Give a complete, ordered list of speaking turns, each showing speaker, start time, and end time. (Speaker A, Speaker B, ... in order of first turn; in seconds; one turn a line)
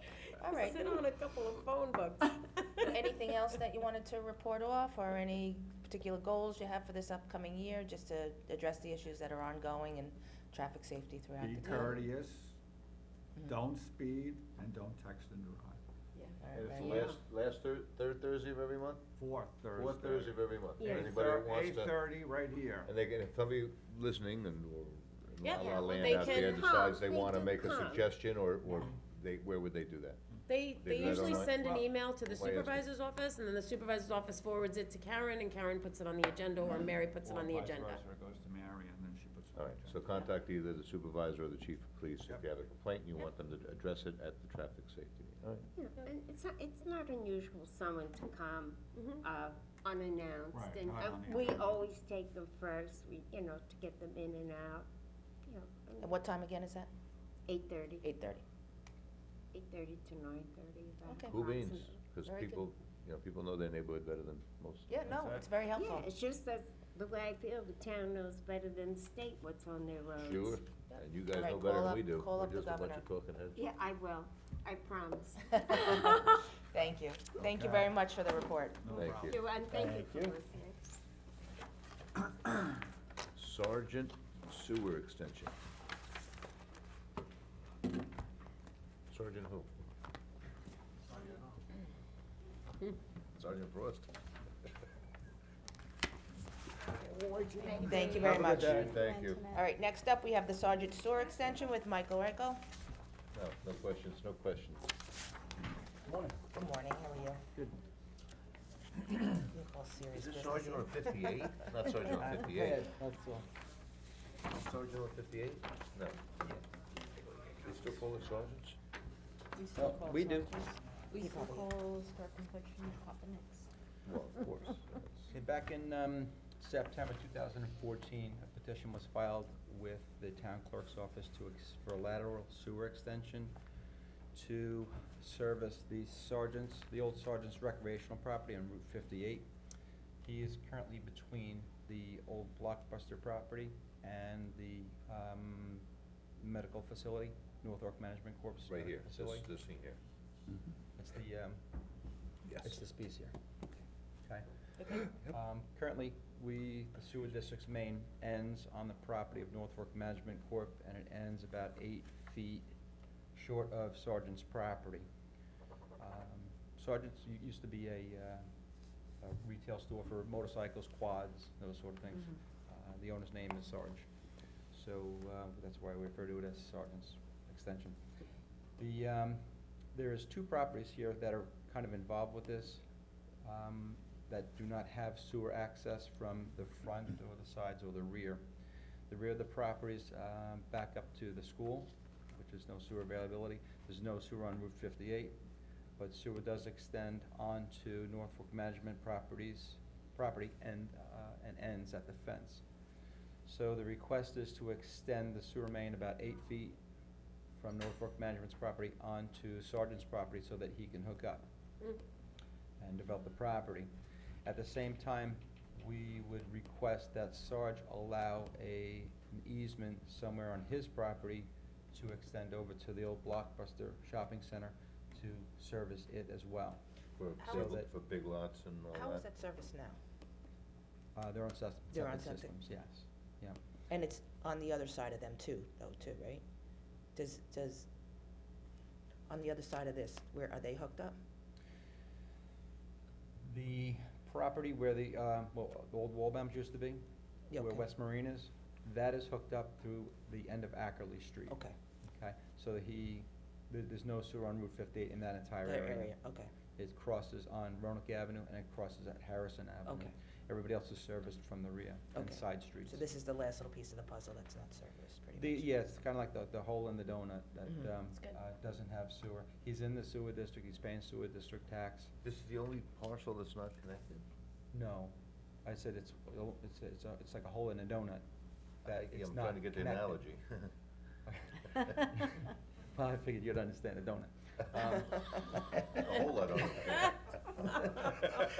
Speaker A: 0.4-1.0
Speaker B: 0.4-2.9
Speaker A: 2.9-12.0
Speaker C: 11.4-12.6
Speaker C: 13.4-15.8
Speaker B: 16.1-17.2
Speaker A: 16.4-17.1
Speaker D: 16.5-19.1
Speaker C: 19.2-22.9
Speaker D: 19.7-22.1
Speaker B: 20.8-21.1
Speaker D: 22.8-30.2
Speaker E: 25.4-26.6
Speaker B: 25.5-28.1
Speaker E: 30.5-38.0
Speaker D: 30.7-32.8
Speaker C: 31.1-31.9
Speaker C: 36.6-40.2
Speaker D: 39.5-45.7
Speaker B: 45.8-54.9
Speaker C: 50.5-51.9
Speaker B: 55.5-56.2
Speaker A: 56.0-56.9
Speaker B: 57.5-58.1
Speaker A: 58.0-58.4
Speaker B: 59.5-62.0
Speaker A: 61.0-61.4
Speaker D: 61.3-65.1
Speaker A: 62.2-62.6
Speaker A: 64.9-66.1
Speaker B: 65.7-70.6
Speaker D: 70.2-73.6
Speaker A: 70.9-73.0
Speaker B: 73.5-75.7
Speaker A: 75.5-79.0
Speaker C: 77.4-78.0
Speaker C: 78.8-80.3
Speaker D: 78.9-79.4
Speaker B: 79.2-81.0
Speaker D: 83.4-85.5
Speaker D: 89.1-89.7
Speaker D: 93.3-94.1
Speaker C: 97.0-98.9
Speaker F: 97.7-99.7
Speaker A: 97.8-98.9
Speaker D: 98.1-99.6
Speaker A: 99.5-102.6
Speaker D: 103.3-104.9
Speaker C: 106.1-106.4
Speaker A: 106.5-107.4
Speaker A: 109.5-111.1
Speaker D: 110.1-112.8
Speaker G: 112.1-113.5
Speaker D: 114.5-116.2
Speaker D: 117.6-118.8
Speaker F: 119.6-123.7
Speaker G: 119.8-120.6
Speaker A: 121.2-121.7
Speaker D: 124.1-125.3
Speaker G: 125.3-133.5
Speaker G: 134.3-139.5
Speaker G: 140.2-145.9
Speaker G: 146.4-149.5
Speaker D: 148.7-150.0
Speaker G: 151.0-151.6
Speaker G: 152.5-153.3
Speaker G: 155.0-162.7
Speaker G: 163.3-165.1
Speaker G: 166.0-168.5
Speaker G: 169.2-174.1
Speaker G: 174.7-178.0
Speaker G: 178.8-182.8
Speaker G: 183.4-188.4
Speaker G: 189.1-195.4
Speaker G: 196.0-202.6
Speaker G: 203.5-206.8
Speaker G: 207.6-211.5
Speaker G: 212.8-213.9
Speaker G: 214.4-226.8
Speaker D: 227.2-229.3
Speaker A: 227.4-227.8
Speaker G: 227.4-227.9
Speaker A: 228.9-230.0
Speaker G: 231.2-233.6
Speaker A: 231.9-232.5
Speaker A: 233.9-236.4
Speaker A: 237.2-237.9
Speaker A: 239.3-241.2
Speaker G: 243.4-251.6
Speaker A: 247.5-247.9
Speaker A: 251.5-251.8
Speaker G: 252.1-256.1
Speaker A: 255.6-256.5
Speaker G: 256.8-263.0
Speaker A: 259.9-260.1
Speaker A: 262.1-265.7
Speaker G: 265.3-272.1
Speaker D: 272.2-274.2
Speaker G: 274.7-275.1
Speaker G: 275.6-278.2
Speaker G: 278.9-280.2
Speaker D: 278.9-280.7
Speaker G: 281.3-286.0
Speaker D: 285.9-287.3